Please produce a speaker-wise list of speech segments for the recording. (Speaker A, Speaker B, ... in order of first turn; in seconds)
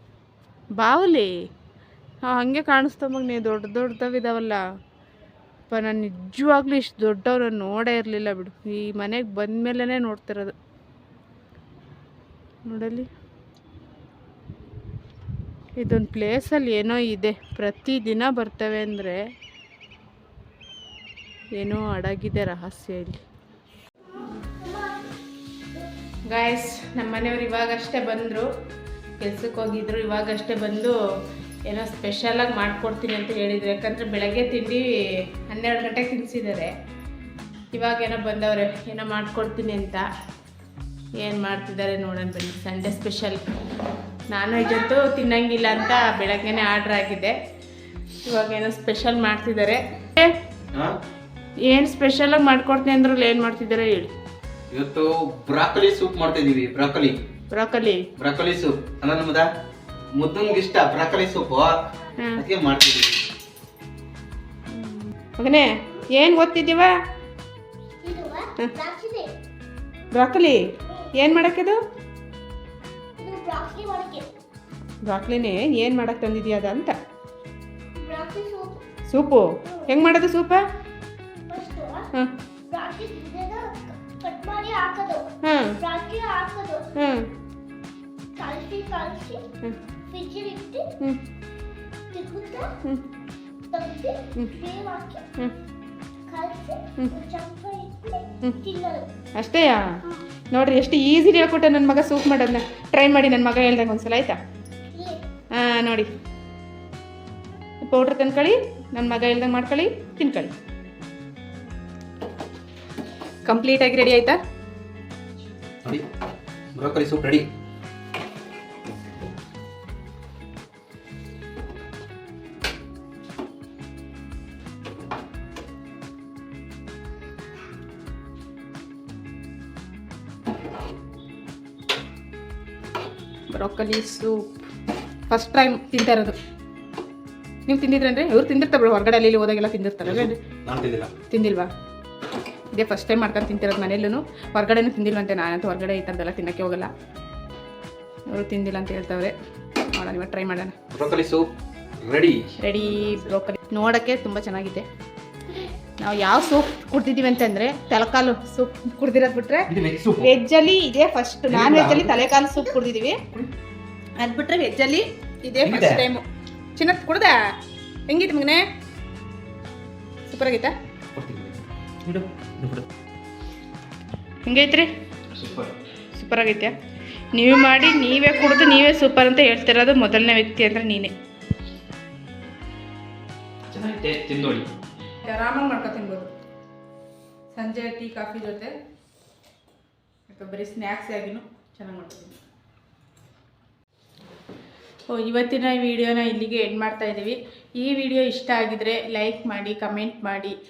Speaker A: 0.8-1.3, 2.3-4.6, 5.7-10.5, 12.7-13.1, 15.8-19.2, 21.6-23.2, 26.3-28.5, 29.2-30.9, 31.7-34.9, 35.5-36.7, 37.7-40.0, 41.2-43.4, 44.3-47.4, 48.3-50.4, 51.6-54.1, 57.5-58.1, 62.2-62.5, 64.7-67.0, 70.1-71.8, 75.0-77.0, 79.1-80.6, 85.4-85.8, 87.0-87.3, 99.4-100.0, 100.5-104.4, 105.5-106.1, 107.8-110.5, 113.5-114.4, 133.5-134.6, 135.3-136.3, 137.7-140.4, 141.3-141.7, 142.7-146.9, 148.3-149.3, 149.9-150.8, 152.6-154.9, 156.0-163.2, 164.2-166.2, 166.8-167.3, 168.1-168.7, 170.3-170.7, 174.5-174.9, 176.1-176.8, 177.3-181.1, 185.2-186.3, 187.5-188.7, 190.3-192.4, 195.1-200.6
Speaker B: 54.7-57.2, 58.2-59.5, 60.1-61.8, 62.4-63.2, 116.8-117.5, 140.0-141.1, 150.9-151.5, 152.0-153.3, 159.7-160.3, 161.5-162.2, 165.6-166.0, 171.2-172.9, 175.3-175.7, 183.7-184.7
Speaker C: 68.0-69.3, 73.2-74.3, 78.0-78.8, 81.5-82.1, 82.7-85.3, 85.8-86.9, 88.4-89.5, 90.1-90.9, 92.1-92.7, 93.7-95.2, 96.3-99.1, 105.0-105.2